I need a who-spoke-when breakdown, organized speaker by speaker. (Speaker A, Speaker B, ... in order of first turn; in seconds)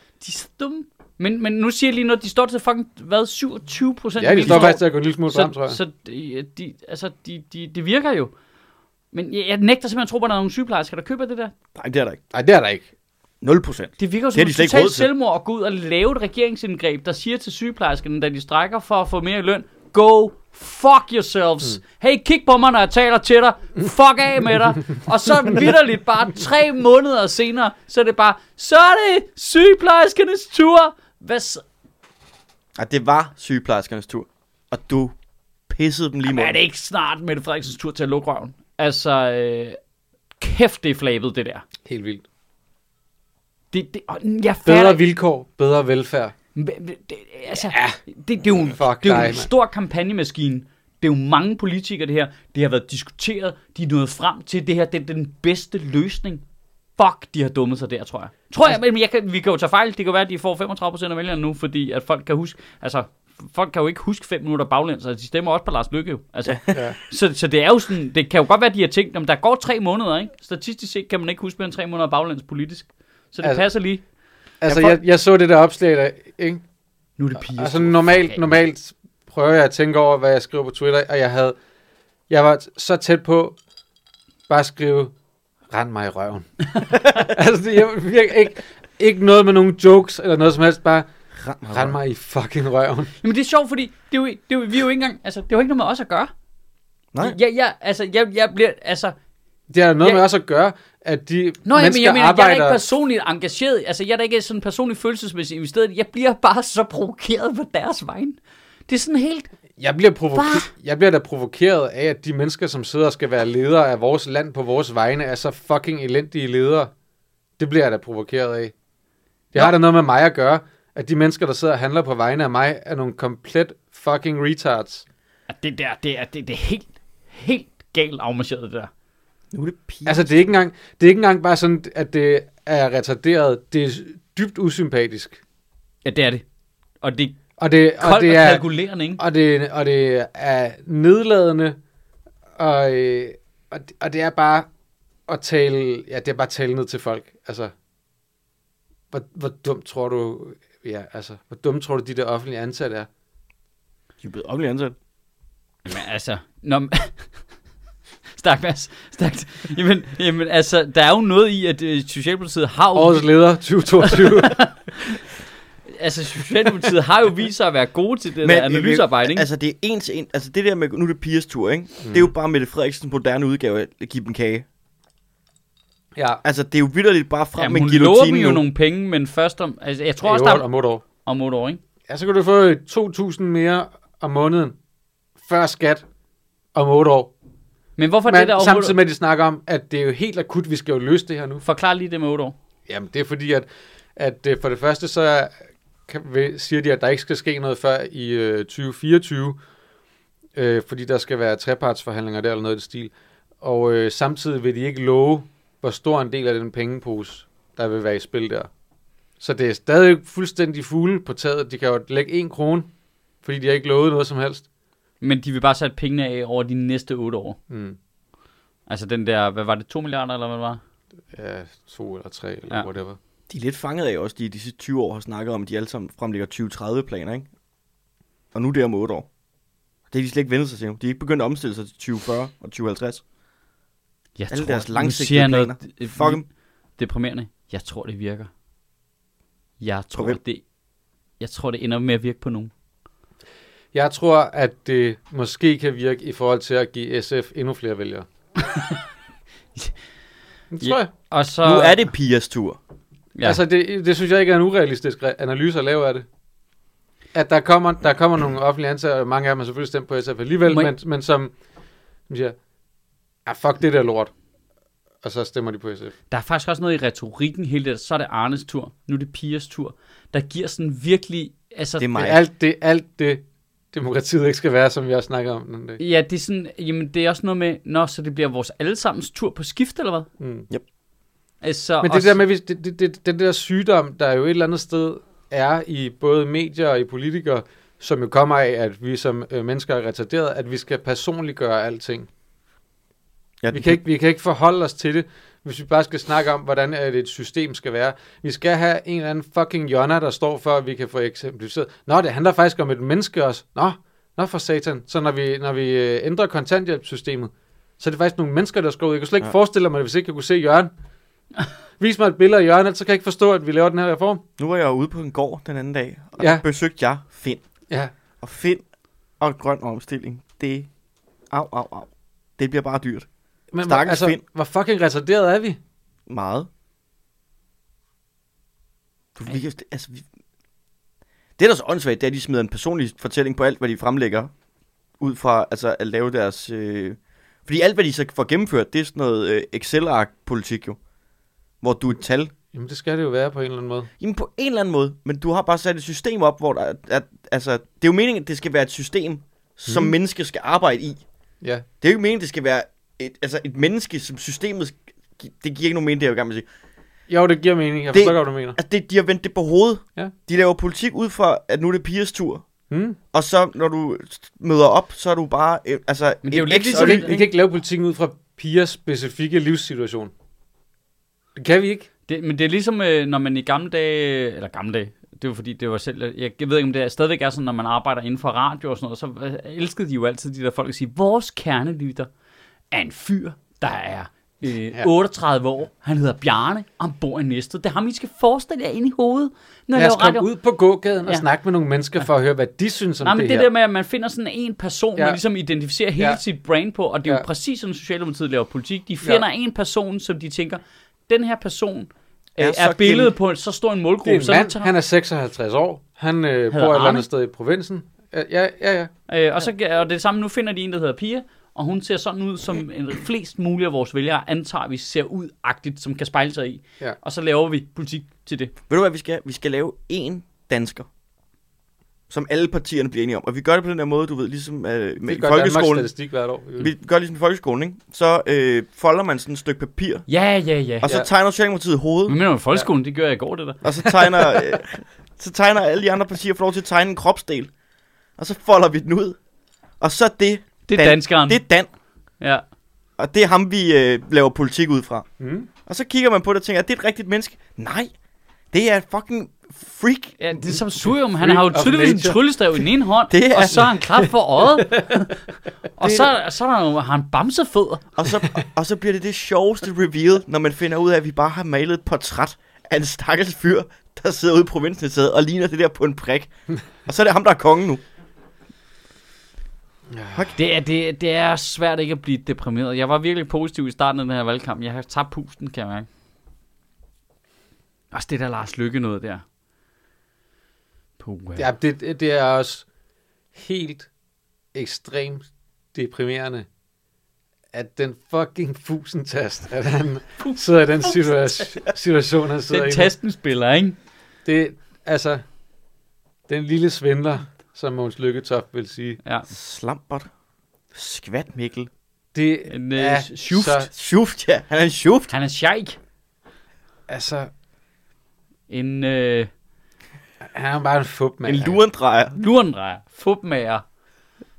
Speaker A: 0.2-8.3, 9.1-11.5, 14.0-31.6, 36.2-39.8, 40.4-41.6, 43.7-45.0, 46.5-56.4, 57.0-74.0, 77.2-78.5, 93.2-96.3, 97.2-99.1, 101.6-109.5, 110.3-110.7, 125.5-128.9, 136.0-136.4, 137.0-137.4, 138.0-139.2, 155.8-157.3, 158.4-163.3, 164.0-165.2, 165.9-169.4, 177.6-180.6, 181.2-181.8, 188.0-189.0, 191.6-192.5, 215.2-217.6, 218.9-220.8, 234.4-236.4, 237.0-238.5, 239.8-240.6, 241.4-242.7, 248.6-249.0, 250.8-252.0, 253.3-253.6, 266.3-272.3, 276.0-280.3, 281.6-282.4, 366.4-367.5, 372.3-382.3, 382.9-390.5, 393.2-404.9, 406.7-407.2, 409.3-418.7, 430.3-431.1, 432.3-434.6, 440.9-441.6, 450.4-455.3, 456.0-458.1, 470.5-476.1, 478.1-479.4, 481.2-481.7, 490.4-491.7, 492.7-493.9, 502.7-503.9, 505.3-506.0, 508.7-509.5, 512.4-513.8
Speaker B: 4.2-5.8, 12.3-12.9, 41.8-42.2, 44.6-46.3, 47.5-48.0, 48.6-49.5, 74.6-76.6, 77.4-81.5, 82.3-83.6, 84.5-85.1, 85.7-86.5, 87.1-91.1, 91.7-93.1, 99.7-102.8, 109.8-116.9, 117.6-118.7, 119.5-125.0, 130.0-135.4, 137.6-138.6, 139.2-141.8, 142.6-144.7, 145.3-147.7, 149.1-153.1, 162.9-164.6, 172.0-172.3, 176.2-176.4, 180.2-181.0, 182.1-184.8, 185.4-186.0, 186.7-187.3, 188.3-191.6, 192.9-195.5, 196.1-199.6, 200.5-208.7, 209.4-212.9, 213.4-214.7, 217.7-218.0, 221.3-223.2, 243.9-248.2, 250.7-251.1, 253.4-256.2, 257.3-261.5, 262.3-262.6, 263.4-264.3, 265.2-266.1, 272.1-276.0, 280.4-280.7, 282.0-292.3, 293.7-310.9, 312.0-314.4, 316.4-316.6, 323.7-325.8, 342.7-344.1, 349.9-350.1, 357.3-358.8, 362.9-363.2, 366.9-370.3, 371.5-372.1, 389.9-393.7, 404.2-409.1, 425.2-426.9, 445.4-445.7, 451.4-452.4, 454.8-455.1, 470.1-470.4, 481.6-482.9, 483.5-484.1, 484.7-486.7, 487.7-493.1, 494.4-495.4, 496.5-499.2, 502.3-503.9, 507.1-507.5, 510.4-511.8
Speaker C: 4.5-4.7, 11.8-12.2, 13.4-15.1, 32.8-35.1, 35.7-36.6, 66.5-66.8, 74.7-75.0, 91.3-92.0, 129.5-130.3, 154.2-154.9, 168.4-174.6, 176.4-178.6, 223.5-227.5, 228.5-229.3, 230.1-233.2, 234.5-236.4, 251.6-252.8, 272.0-272.4, 293.6-294.0, 314.6-317.6, 318.4-318.8, 319.4-320.9, 321.5-323.2, 323.8-324.4, 326.3-326.7, 329.4-330.2, 331.6-334.5, 335.2-341.0, 341.8-342.5, 344.2-351.2, 352.0-356.6, 358.1-362.6, 363.3-367.4, 402.6-403.3, 418.9-421.1, 422.3-426.1, 426.8-430.2, 431.0-432.4, 433.8-437.7, 438.4-439.4, 440.0-441.9, 443.2-445.3, 445.9-448.1, 448.7-450.4, 453.3-454.1, 456.0-456.3, 458.1-466.5, 467.1-468.0, 499.5-500.3, 500.9-501.9, 503.9-505.3, 511.4-512.4